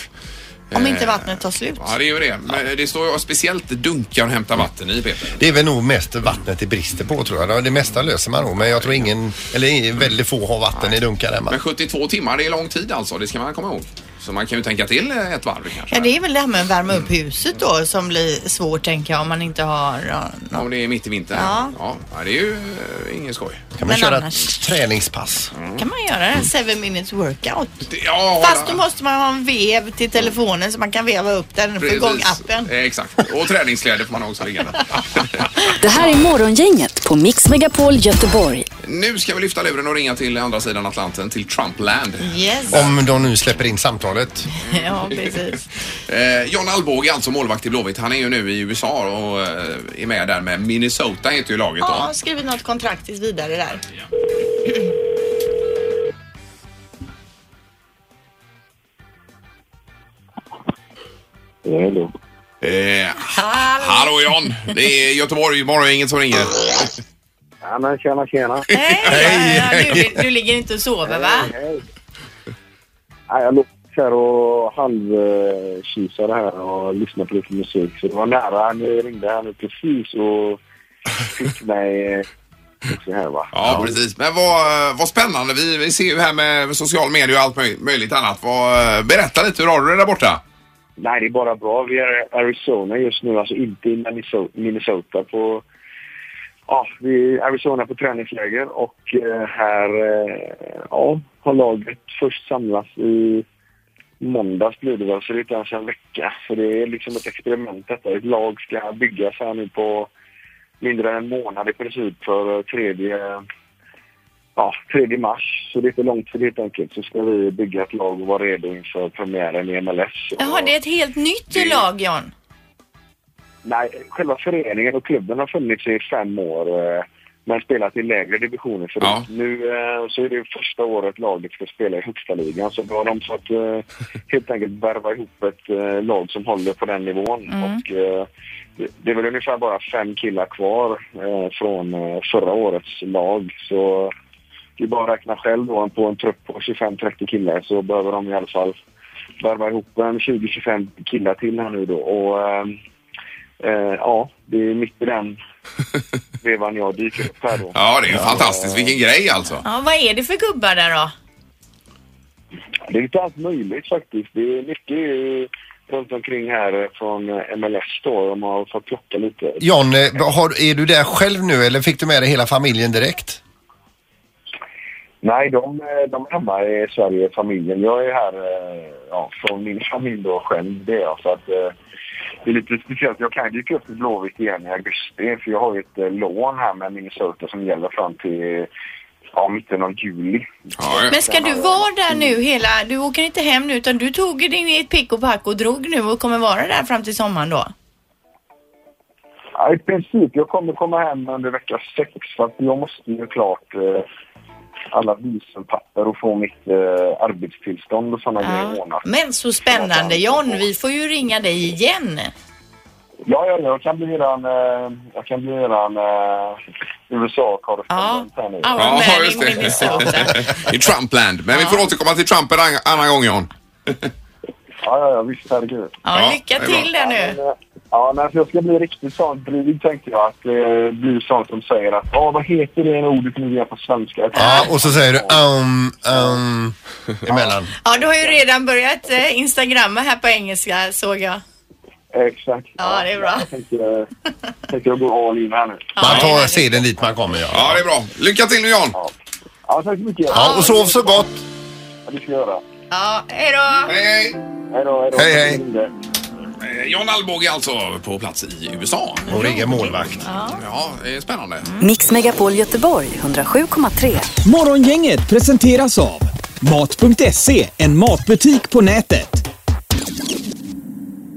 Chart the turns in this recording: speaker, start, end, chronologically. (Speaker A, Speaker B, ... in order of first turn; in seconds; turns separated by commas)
Speaker A: 0.7-1.9, Speaker B: 0.7-5.6, Speaker C: 5.4-11.6, Speaker B: 8.8-9.1, Speaker B: 11.5-16.1, Speaker A: 15.9-20.6, Speaker B: 20.5-23.7, Speaker A: 21.3-21.7, Speaker C: 23.7-25.5, Speaker A: 23.8-24.5, Speaker B: 25.5-25.8, Speaker A: 25.8-27.8, Speaker B: 27.9-28.8, Speaker A: 28.4-32.7, Speaker B: 31.8-36.0, Speaker D: 35.8-38.7, Speaker B: 38.8-42.9, Speaker A: 42.2-42.9, Speaker C: 42.7-44.5, Speaker A: 44.5-45.6, Speaker B: 44.7-45.5, Speaker B: 46.1-52.1, Speaker A: 51.8-53.8, Speaker E: 61.6-62.1, Speaker B: 62.6-66.9, Speaker A: 63.3-64.1, Speaker E: 67.6-68.7, Speaker A: 68.7-71.5, Speaker B: 69.0-69.7, Speaker C: 69.1-70.0, Speaker E: 71.0-71.8, Speaker E: 73.3-80.6, Speaker E: 81.2-82.2, Speaker E: 82.9-84.0, Speaker B: 83.5-90.4, Speaker E: 91.0-95.6, Speaker E: 96.7-103.5, Speaker E: 104.2-110.1, Speaker E: 110.8-113.4, Speaker E: 114.5-120.7, Speaker A: 120.4-122.3, Speaker E: 123.6-144.1, Speaker B: 129.0-129.3, Speaker A: 137.5-137.8, Speaker E: 144.8-148.8, Speaker E: 149.4-152.8, Speaker E: 153.6-155.4, Speaker E: 156.4-159.0, Speaker B: 157.7-159.6, Speaker A: 159.6-161.1, Speaker E: 162.9-169.6, Speaker C: 169.6-173.4, Speaker E: 175.2-181.7, Speaker E: 182.4-188.7, Speaker E: 189.3-192.4, Speaker B: 190.8-191.1, Speaker A: 191.1-197.7, Speaker E: 199.6-204.1, Speaker E: 204.9-209.1, Speaker A: 208.4-212.3, Speaker E: 209.7-210.7, Speaker E: 213.2-218.8, Speaker A: 217.9-220.5, Speaker B: 218.8-223.5, Speaker E: 219.8-220.0, Speaker A: 221.5-221.8, Speaker E: 224.8-226.0, Speaker A: 226.0-227.4, Speaker B: 226.1-226.9, Speaker E: 226.9-235.4, Speaker A: 234.3-234.7, Speaker C: 234.4-237.7, Speaker E: 236.1-236.4, Speaker E: 237.3-238.4, Speaker A: 237.8-241.4, Speaker E: 242.1-244.1, Speaker A: 242.8-243.5, Speaker E: 244.7-246.0, Speaker A: 246.0-246.8, Speaker C: 246.0-247.8, Speaker B: 246.1-246.3, Speaker B: 247.5-249.0, Speaker E: 249.7-251.2, Speaker A: 250.3-250.8, Speaker C: 250.3-251.4, Speaker E: 252.1-252.6, Speaker A: 252.9-253.9, Speaker B: 253.9-254.4, Speaker E: 254.7-255.9, Speaker C: 255.1-255.6, Speaker B: 256.6-259.4, Speaker C: 259.3-260.2, Speaker A: 259.3-260.6, Speaker B: 260.5-261.6, Speaker D: 261.8-264.3, Speaker F: 264.4-269.4